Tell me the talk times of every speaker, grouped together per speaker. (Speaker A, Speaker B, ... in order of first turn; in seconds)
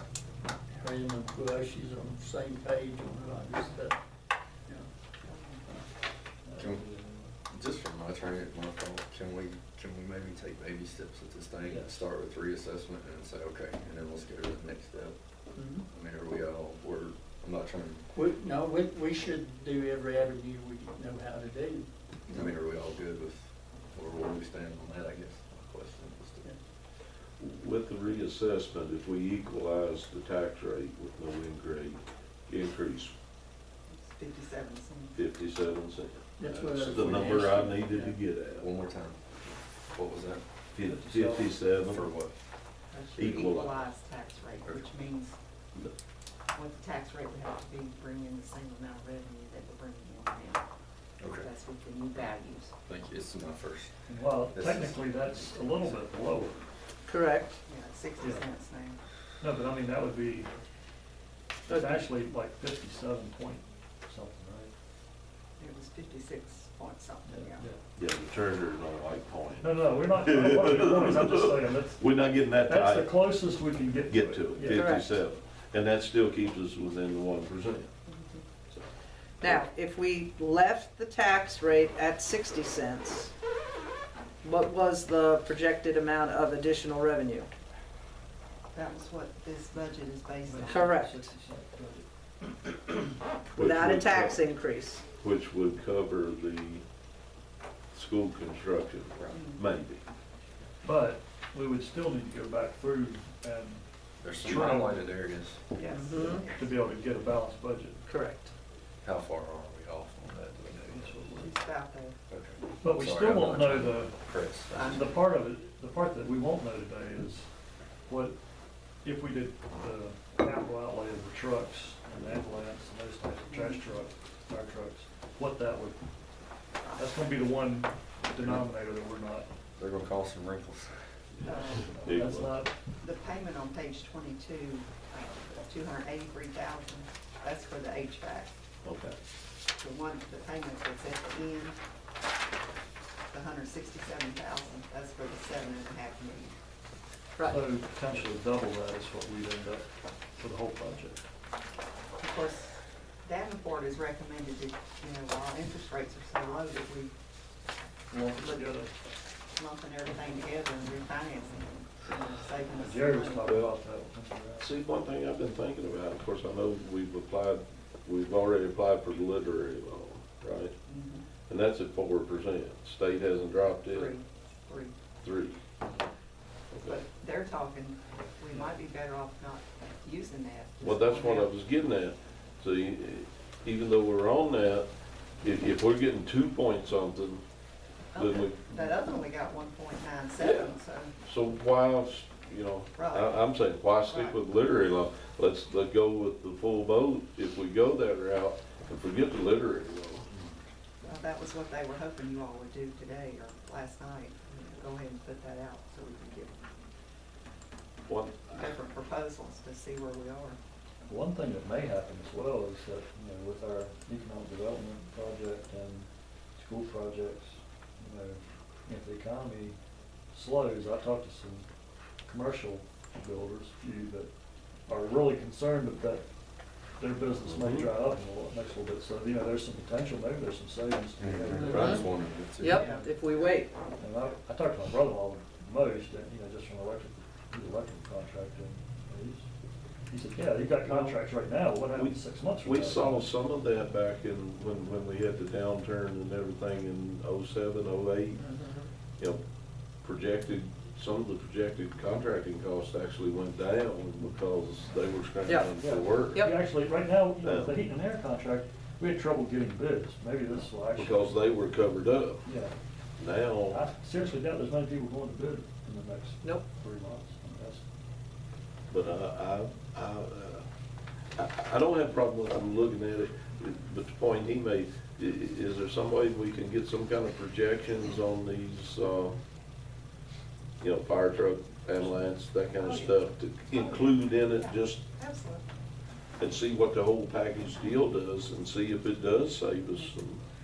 Speaker A: 0.7-4.0, 15.6-15.8, 18.1-22.6, 36.4-38.2
Speaker B: 5.2-5.6, 33.9-35.2, 42.9-45.4, 46.5-50.6, 51.4-52.7, 57.7-59.0, 65.6-67.7, 78.1-78.4, 88.7-91.0, 99.3-99.6, 105.8-106.7, 111.3-112.2, 114.7-115.1, 123.5-123.8, 126.8-127.1, 131.4-132.0, 133.0-138.5, 139.8-141.8, 143.3-146.6, 152.2-157.1, 158.4-158.8, 159.6-163.5, 170.9-171.3, 173.9-175.0, 176.8-181.5, 188.1-191.1, 193.0-193.5, 194.0-194.4, 201.0-206.5, 208.5-210.6, 232.7-233.6, 282.8-285.6
Speaker C: 6.4-7.3, 11.7-12.0, 40.8-41.6, 54.1-56.6, 59.4-60.5, 61.7-64.7, 67.3-67.8, 69.6-72.0, 72.6-75.0, 90.5-93.2, 100.8-103.9, 104.4-105.1, 106.6-108.0, 110.9-111.5, 112.8-114.2, 114.7-117.5, 118.1-118.4, 119.0-126.0, 127.0-129.5, 132.0-132.7, 147.4-151.2, 158.1-158.9, 162.8-164.7, 211.1-219.8, 220.3-221.7, 222.3-224.3, 224.9-226.2, 227.0-232.1, 234.0-239.5, 240.1-243.3, 255.8-261.4, 262.4-262.8, 263.7-267.8
Speaker D: 6.6-6.8, 7.5-15.2, 15.9-18.1, 22.3-26.5, 36.8-37.2, 38.6-39.2, 39.9-40.4, 41.9-42.3, 51.2-51.5, 52.9-54.0, 54.5-55.0, 104.2-105.6, 109.0-111.3, 112.3-115.1, 129.8-131.0, 231.2-232.9
Speaker E: 27.4-33.1, 35.2-38.7, 40.8-42.1, 43.1-43.8, 68.0-73.3, 74.1-77.9, 93.5-94.4, 95.2-96.8, 97.9-100.0, 131.4-132.7, 138.8-139.2, 163.4-163.7, 164.6-170.8, 171.5-174.1, 175.2-175.6, 176.7-177.0, 180.8-184.9, 185.4-187.4, 188.2-188.9, 190.4-200.3, 208.1-208.7, 227.4-227.9, 240.8-241.2, 241.9-248.6, 250.0-256.5, 257.4-257.8, 261.0-262.4, 263.2-263.9, 268.9-270.6, 271.4-279.4, 280.8-285.0, 286.4-290.4
Speaker F: 57.1-57.6, 61.7-62.0, 74.7-75.2, 79.4-83.3, 84.4-87.5, 90.7-91.2, 93.6-95.0, 105.9-106.5, 108.1-108.5, 231.6-232.1, 232.6-233.7, 248.4-248.9, 255.4-255.7, 256.3-256.6